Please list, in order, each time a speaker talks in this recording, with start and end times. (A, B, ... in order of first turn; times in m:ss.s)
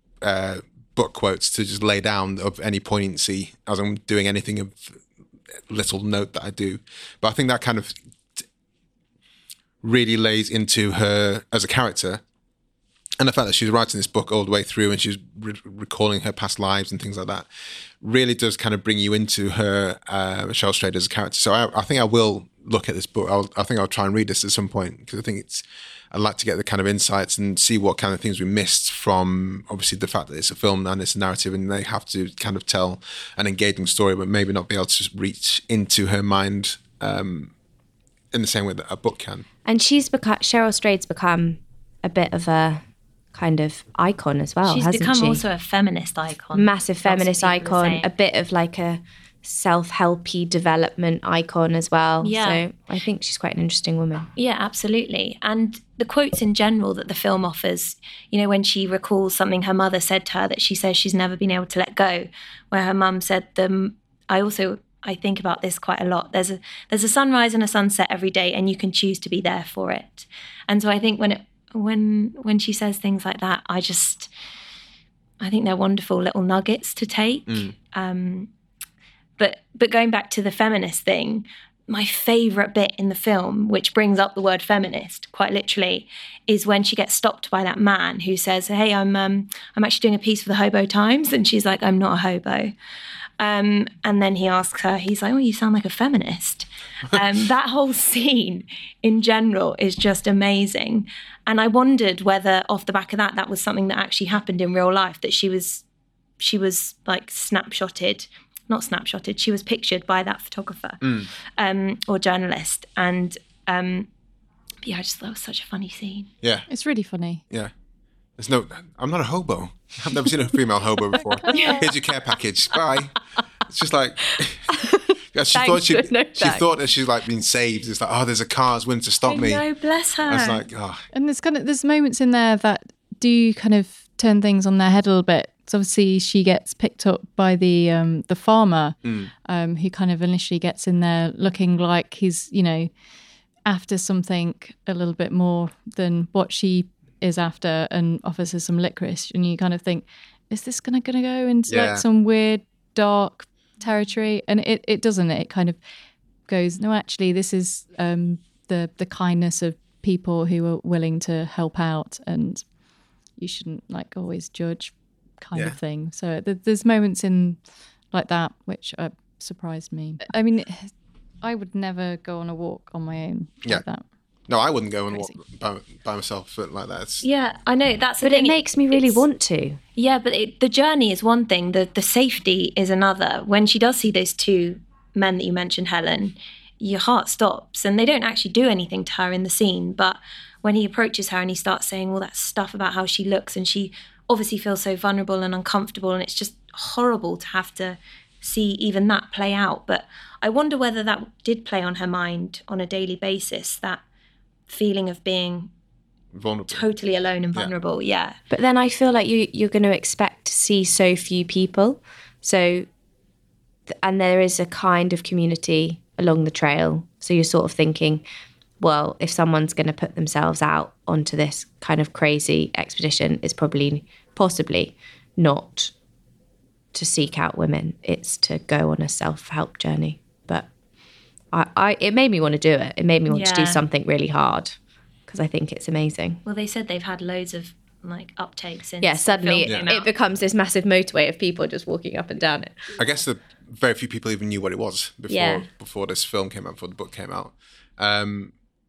0:00.2-0:05.0 A
0:05.5-0:08.4 A
0:09.8-0:12.2 A
0:13.2-0:17.5 A
0:18.0-0:37.5 A
0:38.3-0:39.4 A
0:39.6-0:42.8 B
0:43.3-0:45.4 B
0:44.7-0:48.1 C
0:46.5-0:54.3 B
0:52.2-0:52.6 C
0:54.4-1:14.3 C
1:15.4-1:18.5 C
1:17.5-1:17.7 A
1:19.4-1:32.7 C
1:33.4-1:45.8 C
1:46.4-1:54.1 C
1:51.0-1:51.3 A
1:54.8-1:56.3 C
1:56.4-1:56.7 A
1:56.7-1:57.4 D
1:58.4-2:04.8 A
2:01.5-2:01.7 D
2:01.5-2:01.8 C
2:04.7-2:06.6 B
2:05.3-2:09.6 A
2:09.3-2:10.6 C
2:10.3-2:11.1 A
2:11.1-2:22.9 D
2:19.0-2:19.3 A
2:23.7-2:35.8 D
2:31.7-2:32.0 A
2:36.5-2:42.6 D
2:43.4-2:54.0 D
2:54.5-2:57.3 A
2:55.1-2:55.4 D
2:57.2-2:59.2 C
2:58.2-2:59.8 B
3:00.0-3:24.0 C
3:24.7-3:25.7 C
3:26.3-3:26.9 A
3:26.7-3:28.4 C
3:28.5-3:32.9 B
3:33.9-3:38.2 B
3:38.8-3:45.9 B
3:46.9-3:50.7 B
3:51.5-3:54.8 B
3:53.3-3:53.8 C
3:55.3-3:56.4 B
3:56.5-4:00.1 C
3:59.0-4:02.8 B
4:03.0-4:08.5 A
4:05.3-4:05.7 B